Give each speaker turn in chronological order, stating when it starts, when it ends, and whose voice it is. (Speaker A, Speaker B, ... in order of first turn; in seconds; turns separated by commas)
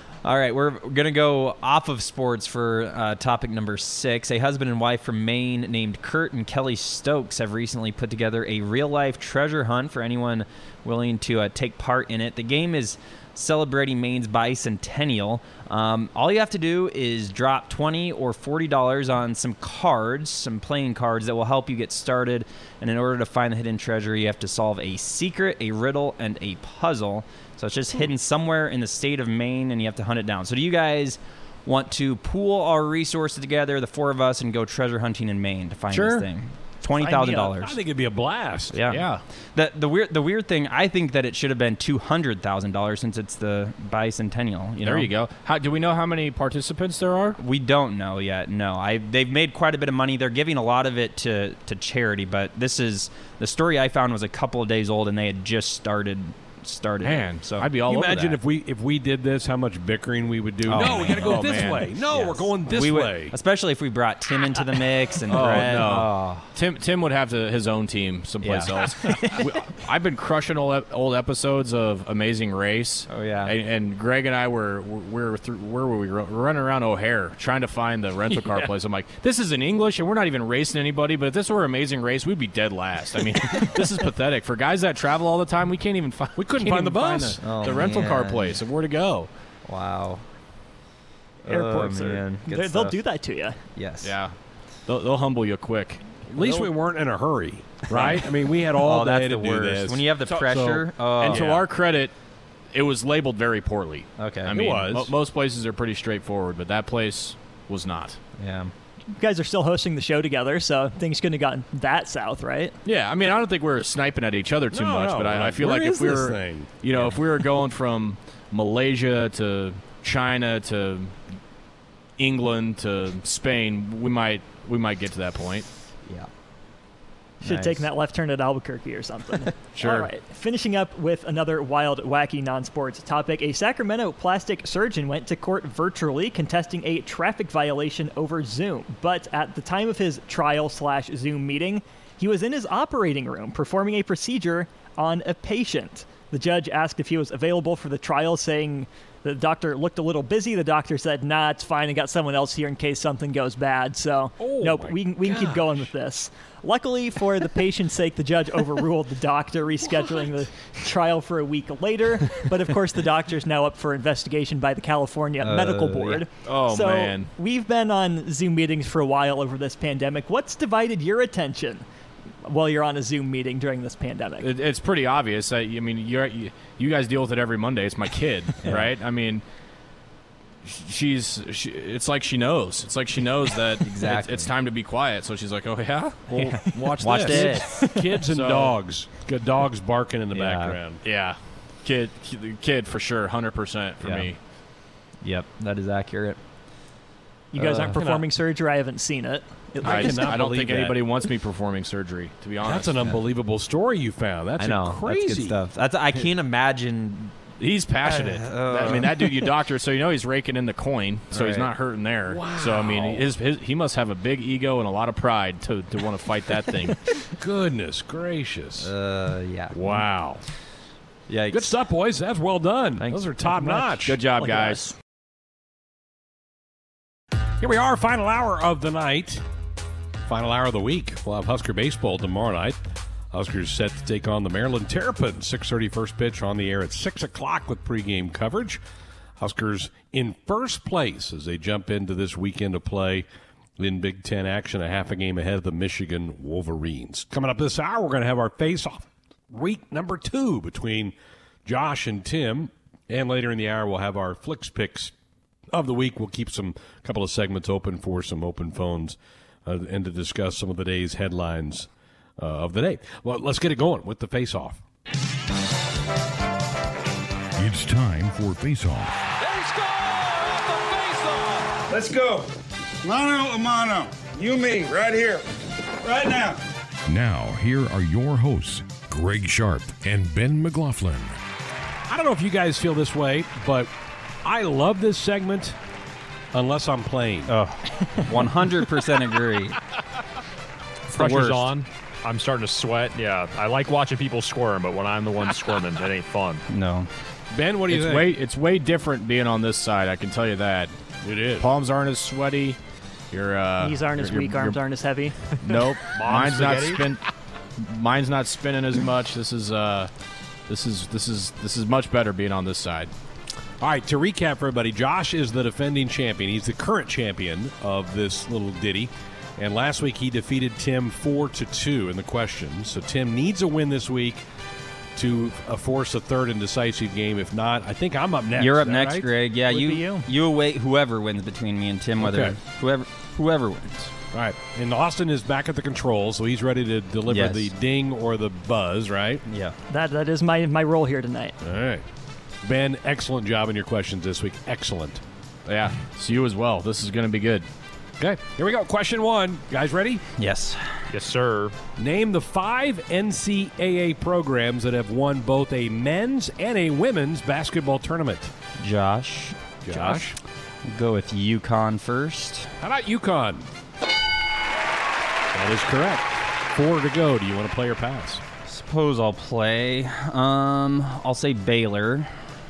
Speaker A: 0.2-37.8, Speaker B: 35.9-36.3, Speaker C: 37.0-38.8, Speaker D: 37.0-37.4, Speaker A: 38.7-45.1, Speaker B: 38.9-39.2, Speaker B: 44.8-47.4, Speaker A: 47.4-57.7, Speaker B: 57.0-58.4, Speaker C: 57.9-63.3, Speaker A: 60.6-66.5, Speaker B: 60.7-62.0, Speaker B: 65.3-89.3, Speaker A: 68.4-69.3, Speaker A: 73.1-73.5, Speaker C: 86.3-87.6, Speaker A: 87.4-88.6, Speaker A: 89.7-90.2, Speaker A: 91.4-93.0, Speaker D: 91.5-93.6, Speaker A: 93.7-94.2, Speaker B: 94.0-96.0, Speaker C: 96.3-101.7, Speaker A: 96.4-96.7, Speaker A: 97.9-101.5, Speaker B: 97.9-98.2, Speaker B: 101.2-102.1, Speaker B: 102.7-108.2, Speaker A: 104.2-104.5, Speaker C: 104.5-105.1, Speaker A: 108.4-108.7, Speaker D: 109.2-112.7, Speaker B: 112.8-121.2, Speaker C: 114.7-116.8, Speaker A: 116.9-117.2, Speaker B: 122.2-125.7, Speaker A: 127.4-127.9, Speaker D: 127.4-171.8, Speaker B: 129.7-130.1, Speaker C: 154.4-155.8, Speaker A: 165.4-166.2, Speaker B: 166.4-167.3, Speaker D: 172.4-174.5, Speaker B: 174.4-179.4, Speaker A: 178.6-178.9, Speaker B: 180.6-188.7, Speaker A: 183.8-184.5, Speaker A: 186.3-187.9, Speaker C: 187.0-191.0, Speaker D: 187.6-188.1, Speaker A: 190.3-190.8, Speaker B: 191.0-194.4, Speaker A: 194.0-194.3, Speaker A: 195.2-196.4, Speaker D: 197.5-200.4, Speaker A: 197.5-198.2, Speaker C: 197.9-198.2, Speaker C: 199.8-201.1, Speaker B: 199.8-203.0, Speaker C: 202.6-205.6, Speaker A: 204.6-207.4, Speaker B: 207.6-217.2, Speaker A: 208.0-209.5, Speaker A: 211.3-211.7, Speaker C: 212.3-213.2, Speaker C: 217.4-218.9, Speaker A: 218.8-220.0, Speaker C: 219.7-220.4, Speaker A: 221.3-221.8, Speaker C: 221.5-224.2, Speaker A: 223.0-223.9, Speaker B: 223.9-224.9, Speaker D: 224.4-224.9, Speaker C: 227.6-229.4, Speaker C: 230.3-232.8, Speaker C: 233.3-238.8, Speaker C: 239.4-243.2, Speaker C: 243.8-255.1, Speaker C: 255.7-264.8, Speaker E: 267.6-269.1, Speaker F: 271.9-272.5, Speaker F: 273.0-275.4, Speaker F: 276.0-276.6, Speaker E: 277.1-281.4, Speaker C: 282.1-283.9, Speaker C: 284.4-285.8, Speaker C: 286.5-287.5, Speaker A: 287.5-289.8, Speaker A: 291.1-291.7, Speaker G: 291.1-296.6, Speaker A: 296.7-297.1, Speaker C: 297.5-298.2, Speaker B: 297.9-300.9, Speaker C: 301.2-301.6, Speaker B: 301.6-302.8, Speaker B: 303.3-304.8, Speaker D: 303.8-305.9, Speaker B: 305.5-307.2, Speaker G: 306.1-307.0, Speaker B: 307.8-310.1, Speaker B: 310.7-313.1, Speaker C: 313.8-324.4, Speaker C: 325.1-329.3, Speaker A: 328.5-334.1, Speaker D: 329.6-330.3, Speaker C: 332.2-332.6, Speaker C: 334.3-339.4, Speaker A: 337.3-337.7, Speaker A: 339.5-339.8, Speaker D: 339.9-341.6, Speaker C: 341.6-342.0, Speaker C: 342.6-345.2, Speaker B: 345.6-347.7, Speaker C: 348.2-350.2, Speaker A: 350.4-351.1, Speaker G: 351.1-351.7, Speaker C: 352.0-358.5, Speaker A: 358.8-360.3, Speaker C: 359.8-360.4, Speaker A: 360.8-362.7, Speaker C: 362.8-363.7, Speaker C: 365.5-368.4, Speaker A: 368.6-372.5